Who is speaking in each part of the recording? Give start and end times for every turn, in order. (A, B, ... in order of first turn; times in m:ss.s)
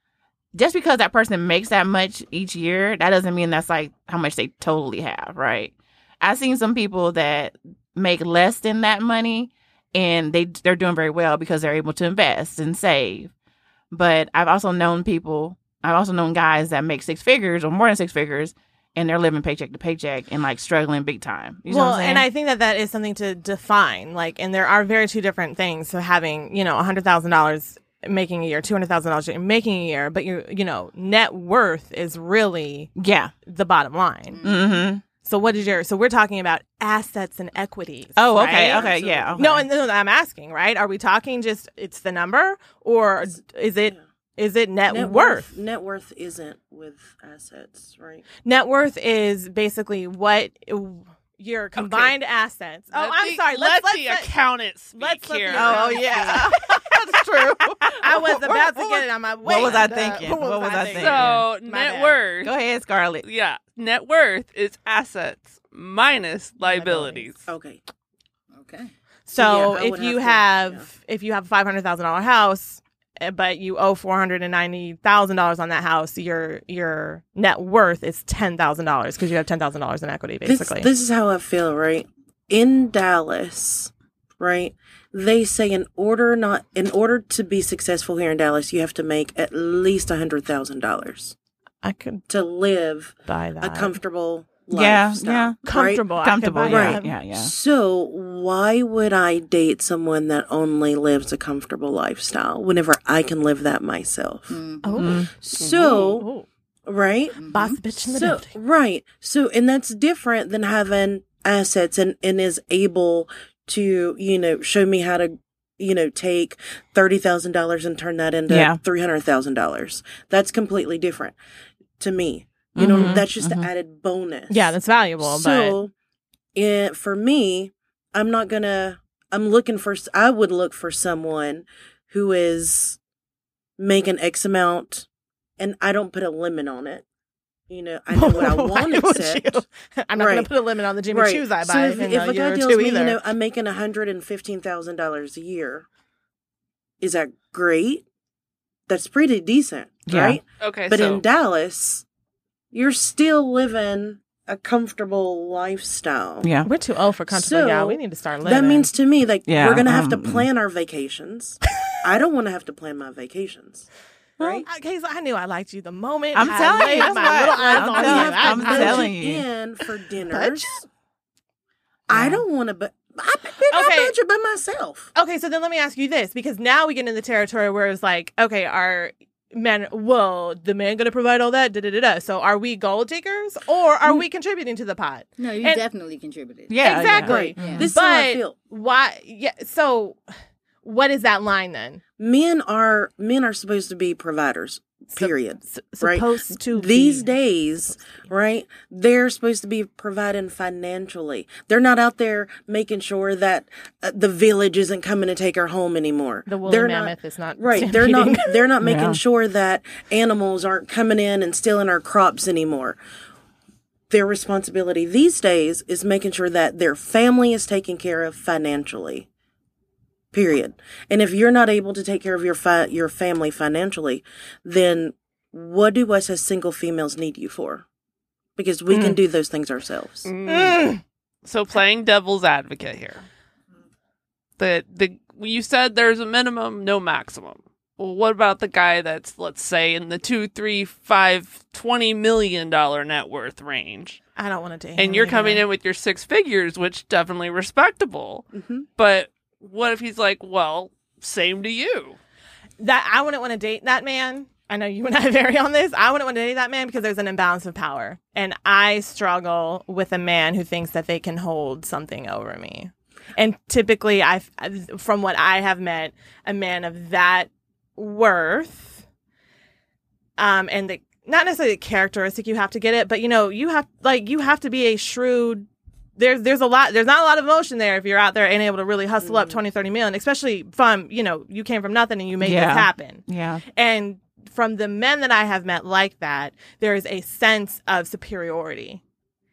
0:00.5-0:13.3 A
0:13.9-0:22.3 A
0:21.7-0:34.4 B
0:33.0-0:33.3 A
0:34.3-0:34.8 C
0:34.4-0:35.0 A
0:35.1-0:45.5 B
0:38.2-0:39.6 A
0:38.6-0:39.6 D
0:44.9-0:48.2 D
0:48.4-0:54.3 B
0:51.8-0:52.2 E
0:52.9-0:56.0 E
0:55.0-0:57.2 B
0:55.5-1:01.5 A
0:57.9-1:02.2 B
1:01.0-1:02.5 E
1:02.4-1:03.3 A
1:03.2-1:07.4 E
1:06.7-1:07.2 B
1:07.5-1:07.8 D
1:08.5-1:08.9 C
1:09.3-1:20.9 B
1:09.4-1:10.9 D
1:20.4-1:31.4 D
1:31.8-1:32.2 B
1:32.3-1:36.1 D
1:33.3-1:34.0 B
1:34.7-1:35.6 A
1:35.6-1:37.2 B
1:36.2-1:37.5 A
1:36.6-1:44.6 D
1:44.5-1:45.0 C
1:44.8-1:46.5 B
1:45.0-1:45.3 A
1:45.3-1:46.3 D
1:45.6-1:46.0 E
1:46.9-1:47.4 D
1:47.4-1:47.8 C
1:47.5-1:48.5 B
1:48.1-2:01.4 D
1:58.5-1:58.8 A
2:02.0-2:05.9 D
2:02.7-2:03.7 A
2:04.5-2:05.8 B
2:06.6-2:13.0 D
2:13.8-2:15.1 D
2:15.6-2:17.0 D
2:17.7-2:19.6 D
2:18.1-2:23.2 B
2:20.2-2:20.5 D
2:21.1-2:25.9 D
2:27.0-2:28.0 D
2:28.9-2:32.0 D
2:30.1-2:30.4 A
2:30.6-2:31.2 E
2:32.7-2:36.5 D
2:36.4-2:36.7 A
2:36.6-2:38.9 B
2:37.3-2:43.9 D
2:39.5-2:40.5 A
2:44.4-2:44.7 D
2:44.6-2:49.1 B
2:46.3-2:49.4 A
2:47.1-2:50.8 D
2:50.3-2:50.8 B
2:52.1-2:55.1 D
2:52.1-2:52.4 A
2:53.7-2:54.2 B
2:55.2-3:05.8 B
3:05.4-3:07.9 C
3:06.7-3:07.9 A
3:06.8-3:10.2 B
3:07.2-3:08.6 D
3:10.8-3:12.0 B
3:12.2-3:33.0 D
3:15.2-3:17.3 B
3:26.5-3:28.6 B
3:28.8-3:29.2 A
3:34.1-3:39.3 D
3:40.3-3:47.8 D
3:48.6-3:50.3 D
3:48.9-3:49.2 B
3:50.2-3:50.9 E
3:50.5-3:51.0 B
3:51.4-3:53.2 E
3:54.6-4:04.2 E
4:04.4-4:05.6 B
4:05.0-4:12.2 E
4:08.5-4:08.8 D
4:12.8-4:29.0 B
4:30.4-4:49.0 B
4:39.2-4:39.6 D
4:42.4-4:43.6 A